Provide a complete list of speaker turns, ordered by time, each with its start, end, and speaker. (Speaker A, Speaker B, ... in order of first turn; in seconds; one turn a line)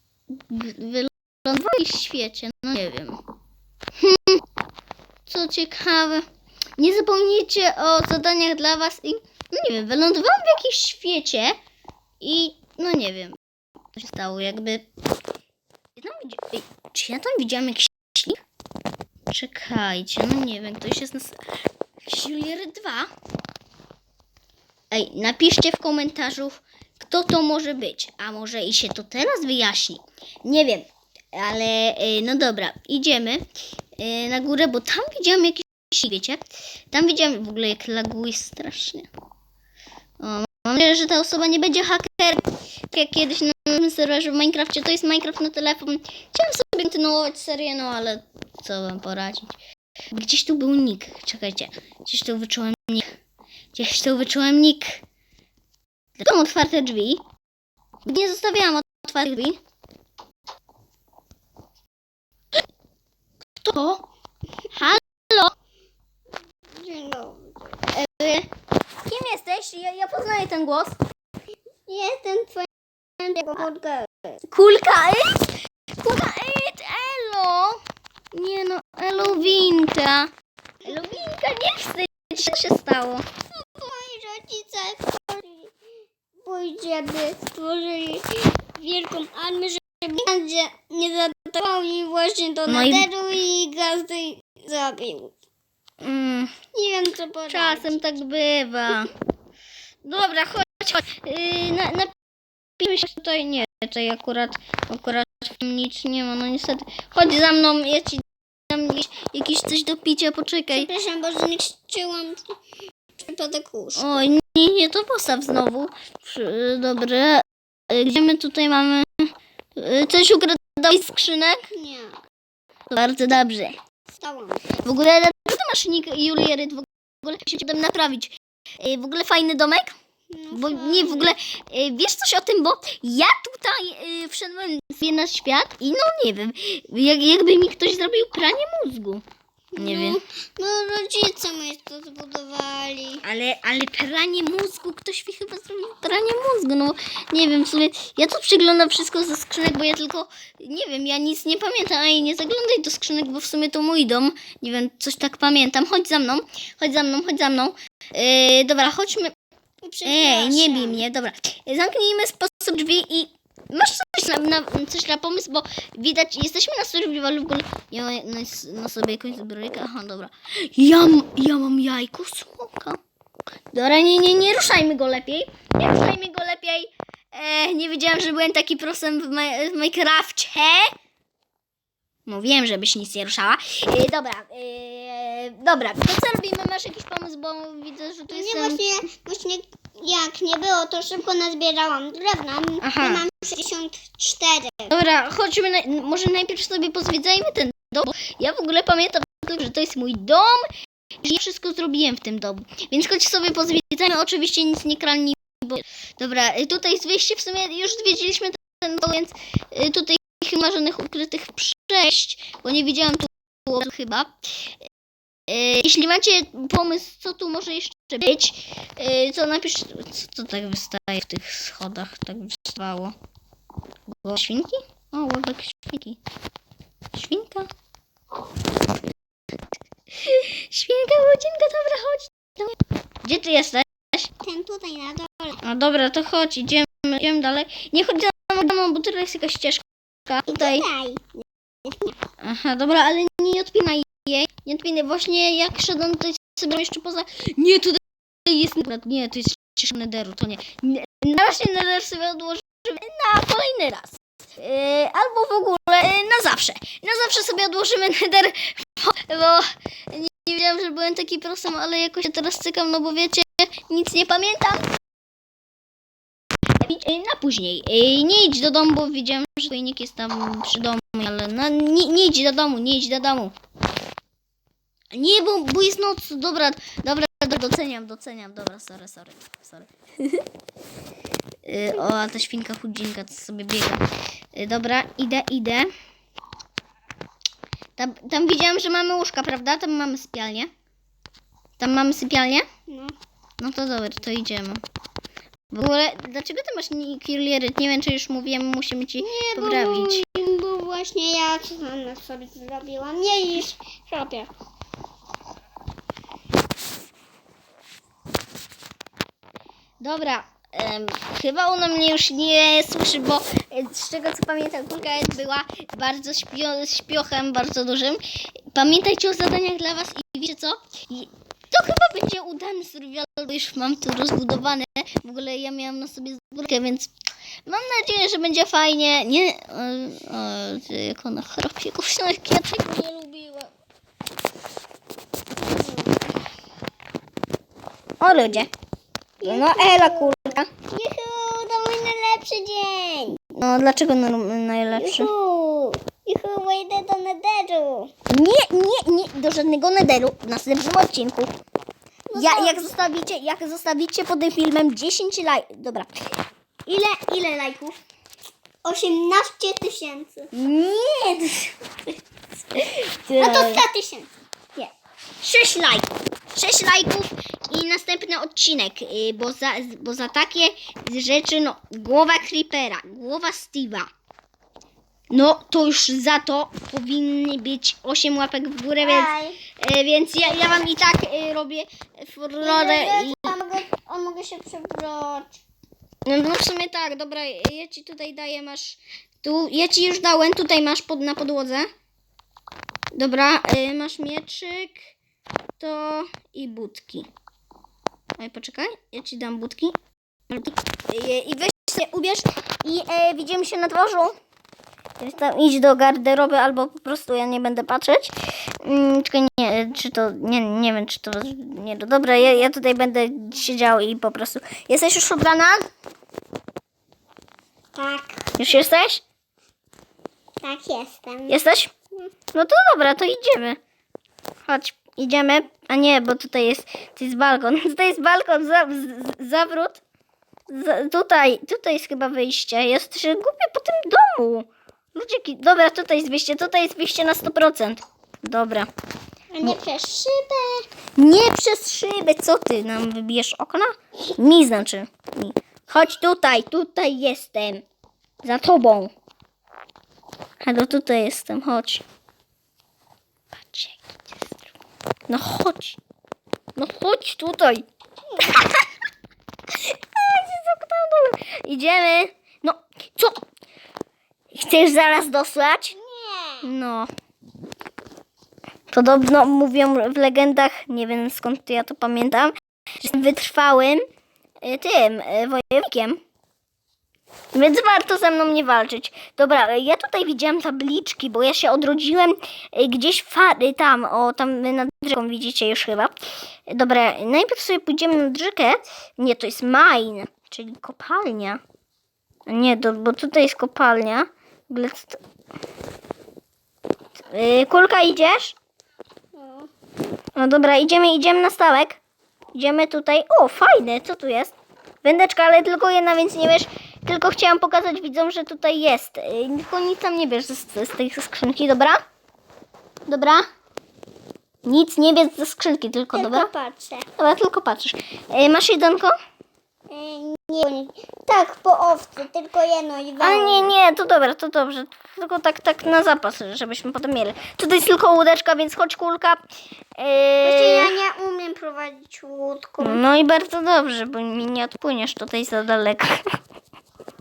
Speaker A: 0.3-3.2
Speaker A: 4.0-4.4
Speaker A: 5.2-6.3
Speaker A: 6.8-11.6
Speaker A: 12.2-13.4
Speaker A: 13.9-14.9
Speaker A: 15.9-18.4
Speaker A: 19.3-21.4
Speaker A: 22.0-23.1
Speaker A: 24.9-33.5
Speaker A: 34.0-39.1
Speaker A: 40.2-49.5
Speaker A: 50.1-53.1
Speaker A: 53.7-55.0
Speaker A: 56.2-57.2
Speaker A: 58.0-59.6
Speaker A: 63.6-64.0
Speaker A: 64.7-65.5
Speaker B: 66.7-67.7
Speaker A: 67.9-68.5
Speaker A: 69.0-71.0
Speaker B: 71.9-74.3
Speaker A: 74.5-77.8
Speaker A: 78.3-80.3
Speaker A: 80.8-83.2
Speaker B: 83.7-85.7
Speaker B: 86.4-95.3
Speaker A: 92.7-93.1
Speaker A: 96.0-96.5
Speaker B: 96.7-98.0
Speaker A: 97.5-99.1
Speaker A: 100.0-102.1
Speaker A: 102.8-110.9
Speaker B: 110.7-112.5
Speaker B: 113.2-114.2
Speaker A: 114.0-121.7
Speaker B: 121.7-122.2
Speaker A: 122.9-123.8
Speaker B: 124.1-124.8
Speaker A: 124.8-129.9
Speaker B: 130.3-131.3
Speaker A: 130.5-139.2
Speaker B: 139.7-143.2
Speaker A: 139.8-140.2
Speaker A: 143.2-159.3
Speaker B: 159.8-161.0
Speaker A: 160.0-173.0
Speaker A: 173.7-180.9
Speaker A: 182.3-189.0
Speaker B: 188.3-194.9
Speaker A: 192.8-193.2
Speaker A: 194.9-200.7
Speaker A: 201.2-214.7
Speaker A: 215.5-223.1
Speaker A: 224.2-226.2
Speaker A: 227.1-227.7
Speaker A: 230.2-234.3
Speaker B: 234.4-235.6
Speaker A: 235.6-240.9
Speaker B: 240.5-242.2
Speaker A: 242.4-264.9
Speaker A: 266.8-273.5
Speaker A: 275.1-280.4
Speaker A: 281.6-284.0
Speaker A: 284.5-285.9
Speaker A: 288.0-290.7
Speaker A: 291.8-292.6
Speaker B: 292.9-293.1
Speaker A: 293.6-294.8
Speaker A: 295.7-300.2
Speaker B: 299.2-304.5
Speaker A: 310.0-327.1
Speaker A: 327.6-333.7
Speaker B: 335.6-336.2
Speaker A: 338.2-338.7
Speaker B: 339.4-340.3
Speaker A: 339.4-340.7
Speaker B: 340.9-343.4
Speaker A: 343.5-345.3
Speaker B: 344.9-348.1
Speaker A: 348.3-351.5
Speaker B: 352.3-352.9
Speaker A: 352.3-356.1
Speaker A: 356.9-358.0
Speaker B: 358.8-360.5
Speaker A: 360.5-361.7
Speaker A: 362.7-363.8
Speaker B: 363.4-364.3
Speaker A: 364.8-374.1
Speaker A: 375.3-383.6
Speaker B: 379.0-379.6
Speaker B: 382.6-385.6
Speaker A: 386.2-391.9
Speaker A: 393.1-395.1
Speaker A: 395.8-397.3
Speaker A: 398.4-400.0
Speaker A: 400.5-404.4
Speaker A: 405.2-415.8
Speaker B: 417.9-418.5
Speaker A: 418.6-419.2
Speaker B: 420.6-421.6
Speaker A: 421.5-421.9
Speaker A: 422.5-423.8
Speaker A: 424.6-430.0
Speaker A: 430.7-438.9
Speaker B: 439.5-440.9
Speaker A: 441.2-447.8
Speaker A: 448.4-449.1
Speaker A: 450.6-452.0
Speaker A: 453.5-454.5
Speaker A: 455.3-456.0
Speaker A: 456.8-457.8
Speaker B: 458.3-458.6
Speaker A: 458.4-458.8
Speaker A: 459.7-463.4
Speaker A: 464.5-465.9
Speaker B: 465.9-466.7
Speaker A: 466.6-467.1
Speaker A: 468.9-474.0
Speaker A: 474.6-476.2
Speaker A: 477.5-491.6
Speaker A: 492.5-495.2
Speaker A: 497.3-498.6
Speaker B: 499.3-499.7
Speaker A: 500.4-502.0
Speaker A: 502.5-512.0
Speaker A: 513.1-513.4
Speaker A: 514.6-516.5
Speaker B: 516.1-517.1
Speaker A: 517.2-519.1
Speaker B: 519.9-523.7
Speaker A: 523.2-529.4
Speaker A: 530.0-531.0
Speaker B: 530.4-533.0
Speaker A: 532.8-536.2